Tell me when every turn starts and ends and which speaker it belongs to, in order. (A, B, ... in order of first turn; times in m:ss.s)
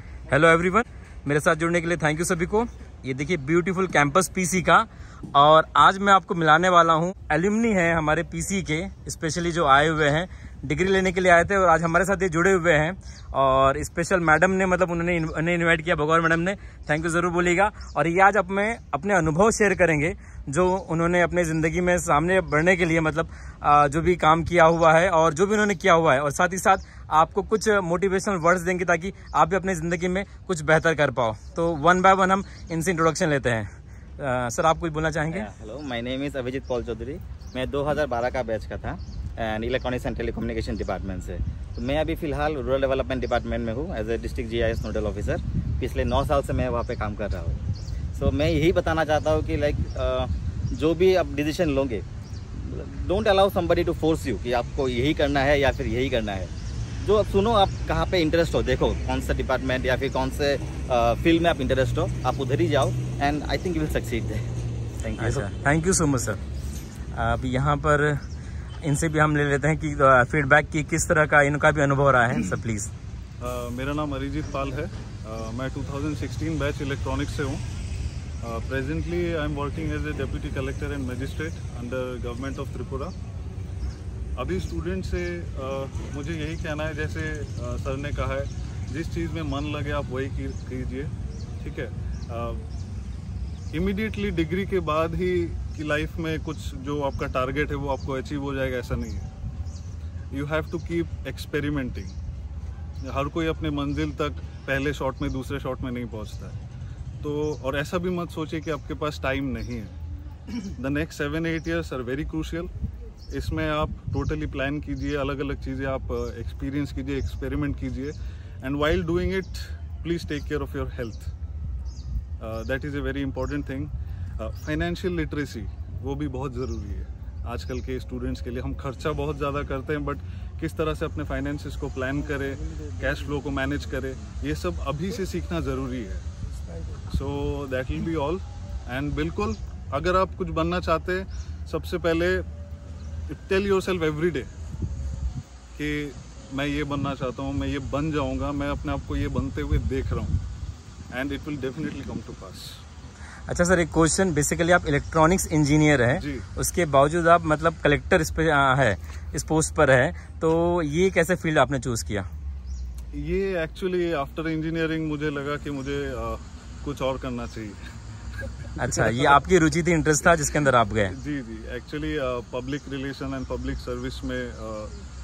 0:00.3-0:33.7 A
0:34.2-0:35.5 A
0:35.3-0:47.6 B
0:48.1-0:56.5 B
0:57.0-1:04.4 B
1:05.0-1:06.4 A
1:05.0-1:05.5 B
1:07.1-1:08.2 A
1:08.8-1:12.9 A
1:13.4-1:17.6 C
1:18.4-1:23.1 C
1:24.4-1:32.6 C
1:33.7-1:39.3 C
1:40.3-1:42.2 C
1:43.0-1:46.6 C
1:47.2-1:49.9 C
1:50.8-1:52.7 C
1:53.3-2:01.3 C
2:02.4-2:16.2 C
2:17.1-2:22.4 C
2:23.3-2:24.5 C
2:25.7-2:30.4 C
2:31.1-2:32.8 C
2:33.5-2:42.2 A
2:36.1-2:36.4 C
2:43.1-2:47.8 C
2:48.8-2:51.1 A
2:48.8-2:49.3 C
2:51.1-2:54.9 C